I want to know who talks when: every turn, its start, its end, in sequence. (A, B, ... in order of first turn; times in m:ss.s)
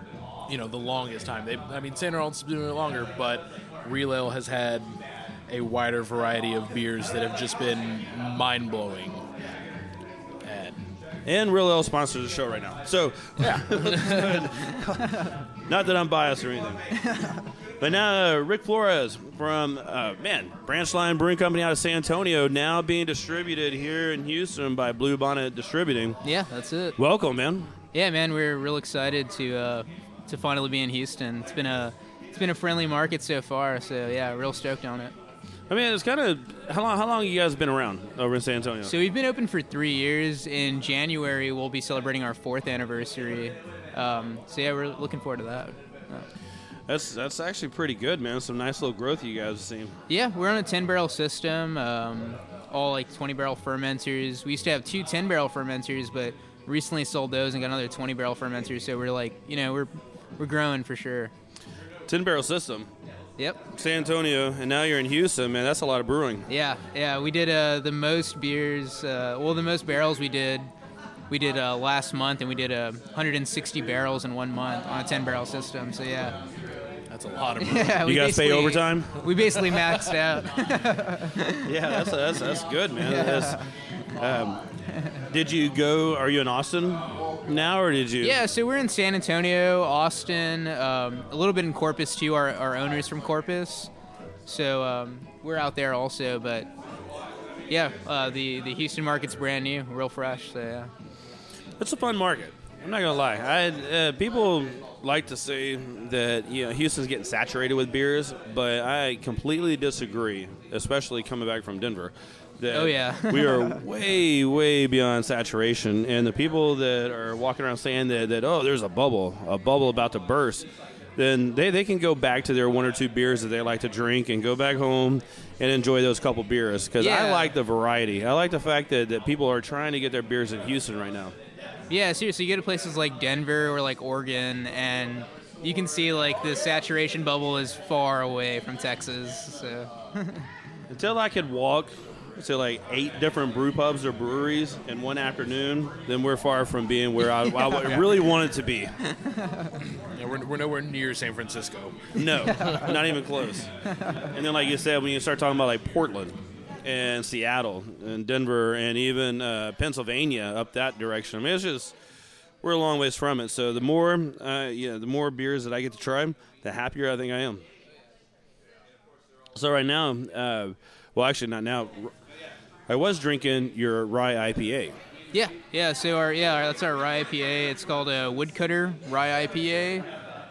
0:00.5-0:05.0 A
0:05.5-0:09.3 A
0:10.4-0:10.8 A
0:11.3-0:16.8 B
0:13.4-0:14.5 A
0:17.8-0:26.2 B
0:26.2-0:27.0 C
0:27.0-0:27.8 B
0:27.9-0:35.1 C
0:35.7-0:38.9 B
0:38.8-0:46.3 C
0:46.9-0:50.0 B
0:50.1-1:01.3 C
1:02.1-1:02.9 B
1:03.7-1:06.5 B
1:06.5-1:10.7 C
1:11.3-1:16.4 C
1:17.1-1:18.0 A
1:17.6-1:21.7 C
1:18.0-1:19.1 B
1:19.2-1:20.1 A
1:21.6-1:23.6 B
1:23.0-1:23.6 C
1:24.2-1:24.6 B
1:25.3-1:28.4 B
1:28.2-1:33.9 C
1:34.5-1:36.7 C
1:37.7-1:40.9 C
1:41.8-2:11.4 B
1:52.7-1:53.8 C
2:07.0-2:07.5 C
2:11.9-2:20.5 C
2:20.9-2:29.0 B
2:27.7-2:28.0 C
2:30.1-2:32.5 A
2:32.2-2:33.7 B
2:34.2-2:41.9 B
2:42.6-2:47.6 B
2:49.6-2:52.1 B
2:52.9-2:55.0 B
2:55.3-3:00.1 C